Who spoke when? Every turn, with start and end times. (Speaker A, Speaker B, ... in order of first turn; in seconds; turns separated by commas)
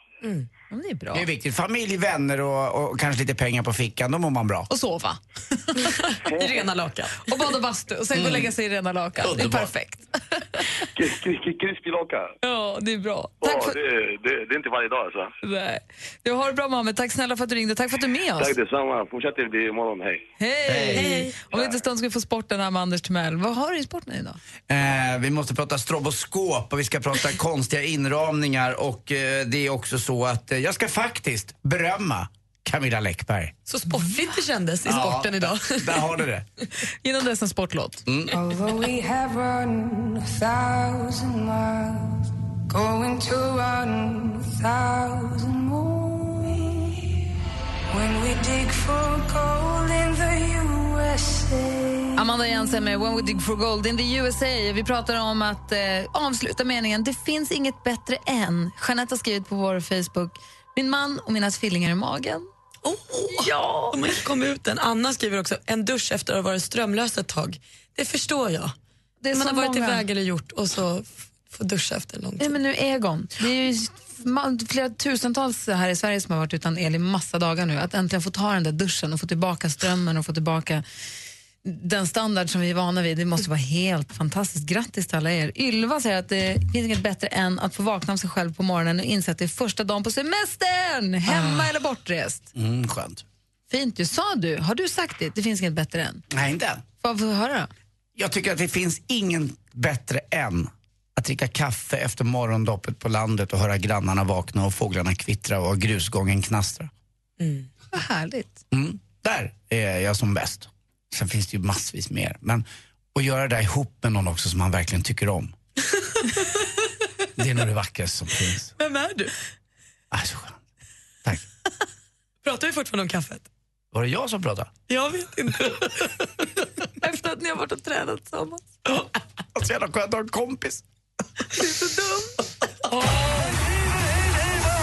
Speaker A: 0.7-1.2, Speaker B: 1.1-4.7, Speaker A: 4.7-6.1, Speaker C: 5.8-7.4, Speaker D: 6.2-6.7, Speaker A: 7.2-10.6, Speaker B: 8.1-8.5, Speaker B: 9.2-9.7, Speaker D: 10.8-12.3, Speaker A: 12.4-13.8, Speaker D: 13.4-15.3, Speaker A: 15.4-18.6, Speaker D: 18.4-20.2, Speaker A: 20.4-24.4, Speaker B: 20.7-21.2, Speaker C: 20.9-21.4, Speaker B: 24.7-33.5, Speaker C: 33.7-36.0, Speaker B: 34.8-36.5, Speaker A: 37.0-38.0, Speaker B: 38.1-38.4, Speaker E: 38.3-47.2, Speaker E: 47.9-52.2, Speaker A: 52.2-62.5, Speaker C: 62.8-68.7, Speaker A: 63.4-64.0, Speaker A: 69.2-70.0, Speaker C: 69.3-72.6, Speaker A: 72.4-80.8, Speaker A: 81.6-92.5, Speaker B: 92.5-93.2, Speaker A: 93.7-96.2, Speaker B: 96.3-96.8, Speaker A: 97.0-97.7, Speaker B: 98.2-106.9, Speaker A: 107.9-108.6, Speaker B: 108.7-115.5, Speaker B: 117.4-118.7, Speaker C: 118.8-119.3, Speaker B: 120.1-120.6, Speaker C: 122.4-123.5, Speaker B: 123.9-124.7, Speaker C: 124.9-126.4, Speaker A: 127.0-128.6, Speaker B: 129.6-130.8, Speaker C: 131.9-132.2